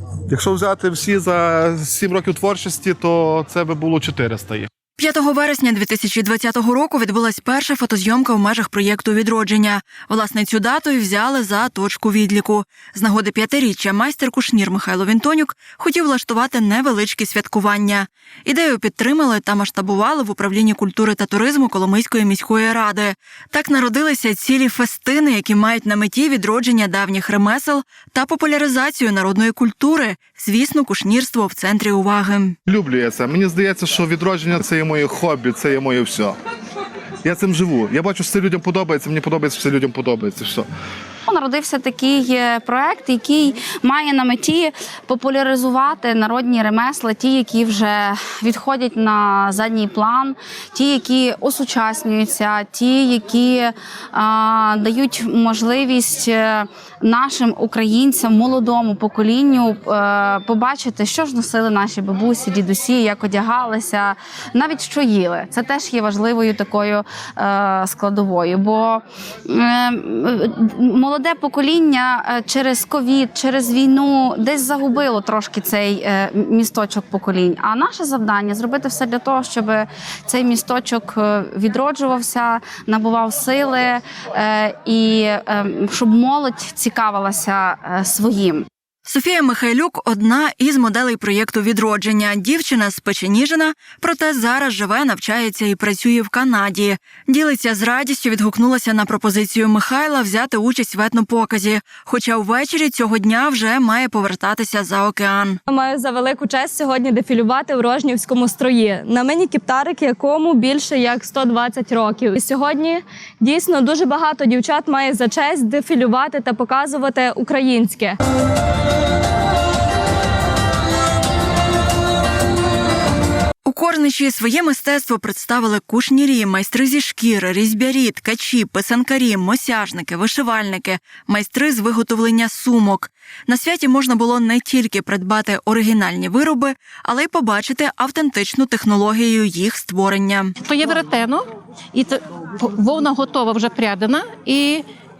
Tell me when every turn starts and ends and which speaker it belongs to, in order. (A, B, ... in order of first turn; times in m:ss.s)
0:00.3-0:04.7 A
0:05.0-0:32.6 B
0:32.7-0:36.4 A
0:37.2-0:40.6 A
0:41.3-1:28.6 C
1:29.0-1:45.6 B
1:45.7-1:58.2 D
2:03.6-2:20.5 B
2:20.6-2:24.8 E